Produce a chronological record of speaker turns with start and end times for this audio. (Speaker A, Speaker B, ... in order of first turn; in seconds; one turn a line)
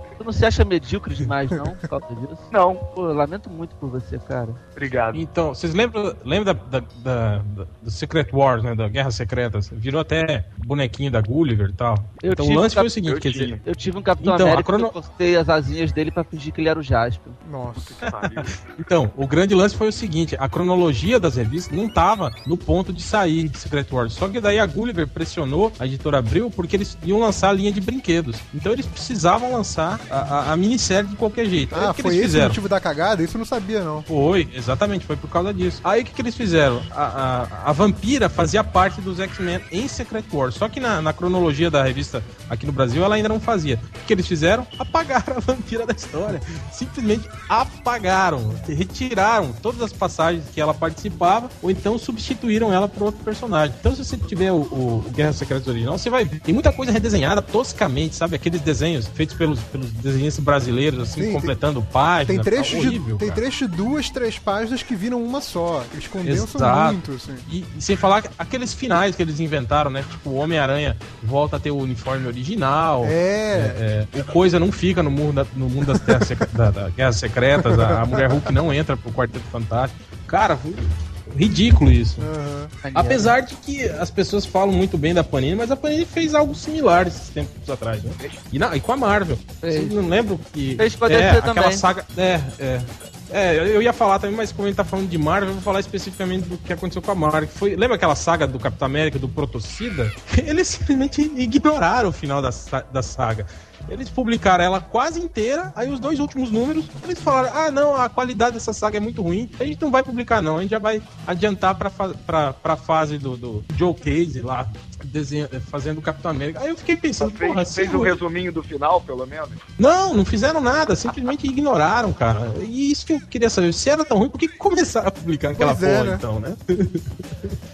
Speaker A: 0.2-4.6
Speaker B: 2.5-2.8
Speaker B: 4.8-5.2
Speaker C: 5.1-13.6
Speaker A: 12.2-12.9
Speaker B: 13.0-13.6
Speaker A: 13.6-17.4
Speaker C: 14.2-14.9
Speaker D: 17.4-18.0
Speaker B: 17.8-18.6
Speaker C: 18.7-32.6
Speaker D: 31.7-34.1
Speaker C: 34.1-63.4
Speaker D: 61.2-61.5
Speaker D: 62.2-67.5
Speaker C: 66.2-82.3
Speaker D: 73.0-73.8
Speaker D: 76.0-76.3
Speaker D: 77.6-78.4
Speaker D: 82.2-82.7
Speaker A: 82.8-83.3
Speaker C: 82.9-118.2
Speaker A: 89.6-89.9
Speaker A: 90.8-91.8
Speaker B: 117.2-119.7
Speaker C: 119.8-127.5
Speaker D: 125.5-126.2